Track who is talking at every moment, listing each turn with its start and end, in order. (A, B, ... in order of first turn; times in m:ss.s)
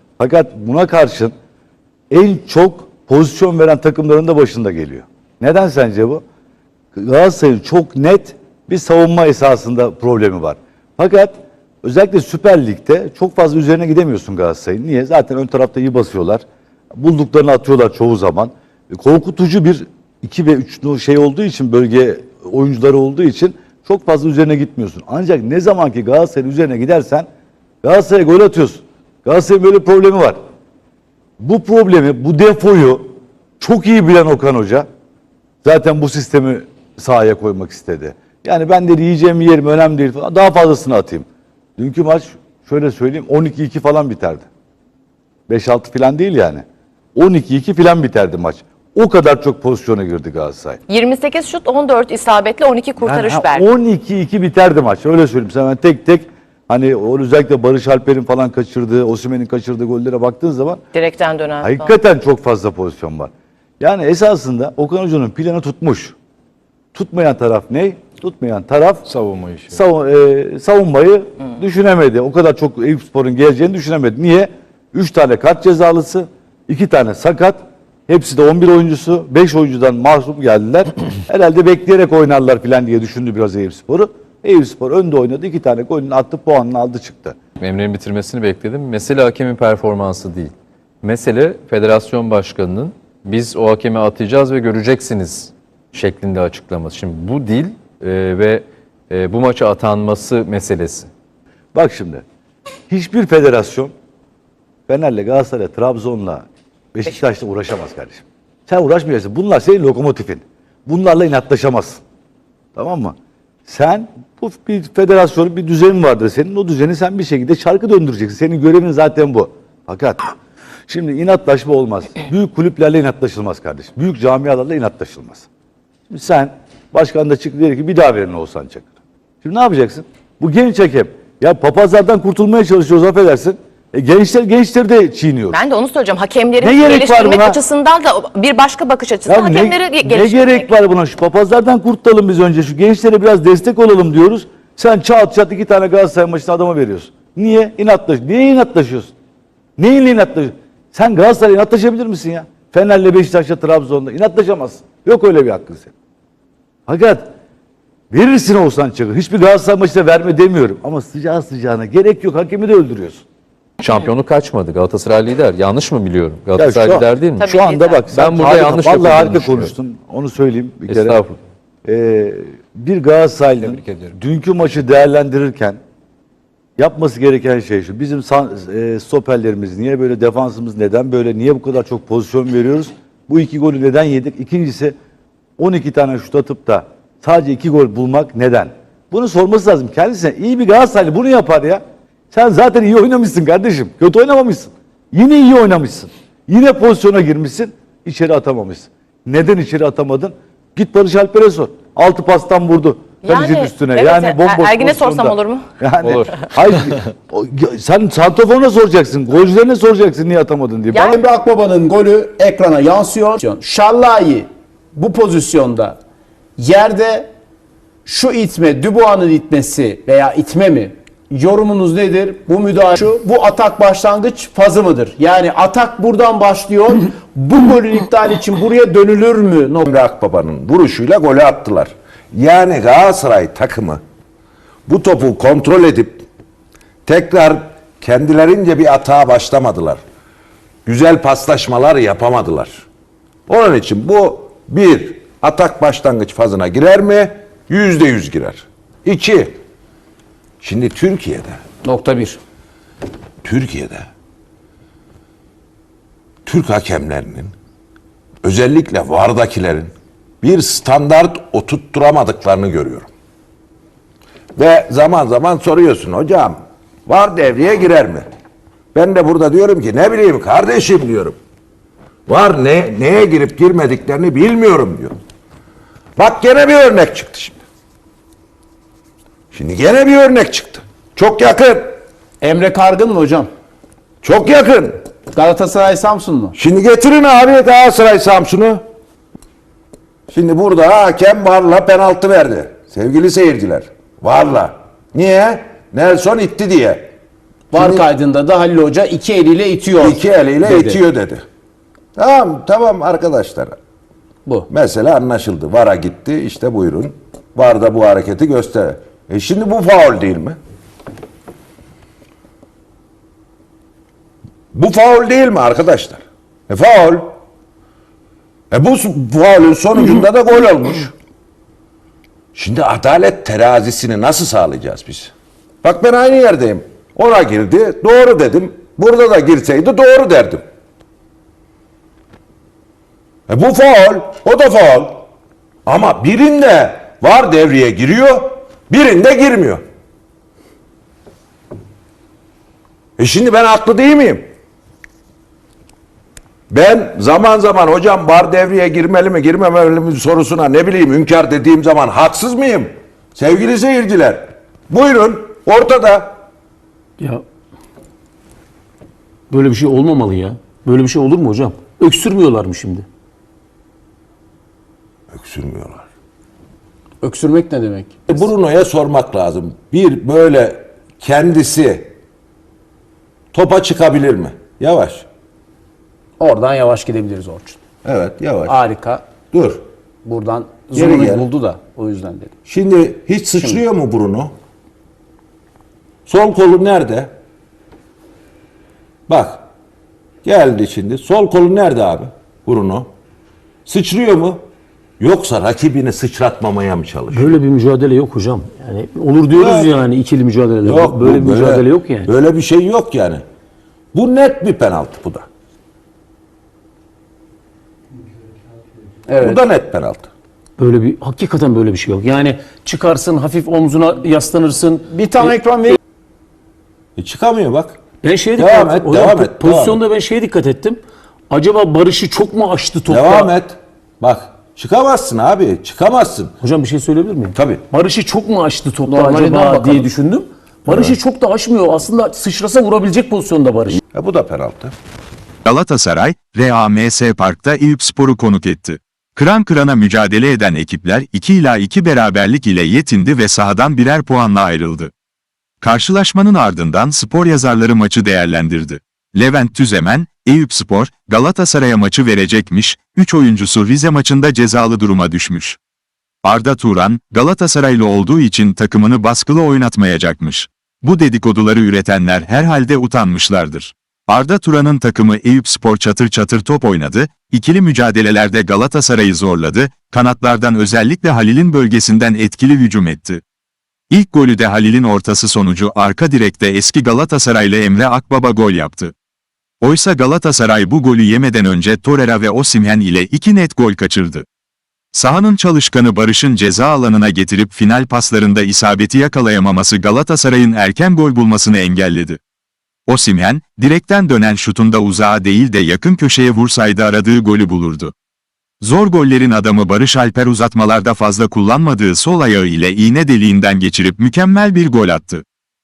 0:00.2-0:01.3 A
0:02.1-0:06.2 A
0:06.9-0:16.4 A
0:17.0-0:27.3 A
0:27.8-0:30.4 A
0:31.4-0:34.8 A
0:35.6-0:41.2 A
0:41.8-0:44.4 A
0:45.5-0:46.6 A
0:47.1-0:50.8 A
0:50.9-0:53.7 B
0:53.0-1:00.8 A
1:00.9-1:01.9 B
1:01.6-1:06.2 A
1:06.9-1:09.1 A
1:09.2-1:09.7 C
1:09.7-1:27.4 A
1:27.6-1:41.1 C
1:41.7-1:42.2 A
1:42.9-1:43.9 A
1:44.9-1:52.0 A
1:52.7-1:53.1 A
1:53.6-2:00.3 A
2:00.9-2:05.4 A
2:06.1-2:08.9 A
2:09.4-2:15.6 A
2:15.5-2:20.7 B
2:16.6-2:17.6 A
2:19.2-2:29.1 A
2:29.8-2:35.9 A
2:36.9-2:37.3 A
2:38.1-2:43.2 A
2:43.8-2:47.5 C
2:43.8-2:44.1 B
2:46.6-2:51.2 A
2:47.4-2:48.1 B
2:48.1-2:49.7 C
2:50.9-2:51.4 C
2:51.8-2:55.8 A
2:56.8-3:05.0 A
3:05.6-3:31.1 A
3:23.2-3:25.6 B
3:30.9-3:31.2 B
3:31.0-3:36.0 D
3:36.6-3:37.3 D
3:38.0-3:49.8 D
3:49.8-3:54.0 E
3:54.9-3:56.2 E
3:57.0-4:00.0 E
4:00.8-4:02.8 E
4:03.5-4:09.6 E
4:10.6-4:11.6 E
4:11.8-4:12.4 D
4:13.4-4:14.1 E
4:16.4-4:17.5 E
4:18.4-4:23.1 E
4:24.6-4:28.3 E
4:28.9-4:31.4 E
4:32.3-4:35.2 E
4:36.2-4:37.6 E
4:39.5-4:42.0 E
4:42.4-4:43.5 D
4:44.2-4:45.0 E
4:45.3-4:46.5 D
4:46.5-4:48.8 E
4:50.3-4:57.1 E
4:57.7-5:01.0 D
4:57.7-4:58.1 E
5:00.0-5:01.4 E
5:02.2-5:03.8 E
5:04.7-5:10.6 E
5:14.7-5:17.4 E
5:18.7-5:21.1 E
5:22.5-5:25.3 E
5:25.8-5:30.6 E
5:33.5-5:35.2 E
5:35.8-5:39.8 E
5:43.2-5:44.5 E
5:46.7-5:56.4 E
5:59.5-6:03.0 F
6:05.3-6:06.0 E
6:07.2-6:08.2 D
6:08.3-6:12.1 E
6:13.5-6:15.3 E
6:16.4-6:17.8 D
6:18.0-6:18.8 E
6:18.7-6:19.2 D
6:19.5-6:19.8 E
6:20.2-6:22.5 D
6:20.9-6:21.5 E
6:22.6-6:24.5 E
6:26.2-6:27.3 E
6:29.3-6:29.6 E
6:30.4-6:33.1 E
6:33.8-6:34.6 E
6:35.2-6:37.6 E
6:37.3-6:42.3 F
6:39.6-6:39.9 E
6:40.8-6:43.4 E
6:44.1-6:45.4 E
6:49.3-6:50.3 E
6:50.8-6:55.9 F
6:55.0-6:56.0 D
6:57.2-6:58.0 E
6:58.2-7:03.5 F
6:58.6-7:00.0 E
7:03.1-7:06.5 E
7:06.6-7:14.0 F
7:07.5-7:07.8 E
7:09.0-7:10.1 D
7:10.9-7:11.2 E
7:14.1-7:14.9 E
7:15.6-7:25.1 G
7:25.8-7:35.8 G
7:36.4-7:53.4 G
7:54.1-7:59.1 G
7:59.8-8:04.4 G
8:05.1-8:12.4 G
8:13.1-8:18.1 G
8:18.8-8:25.4 G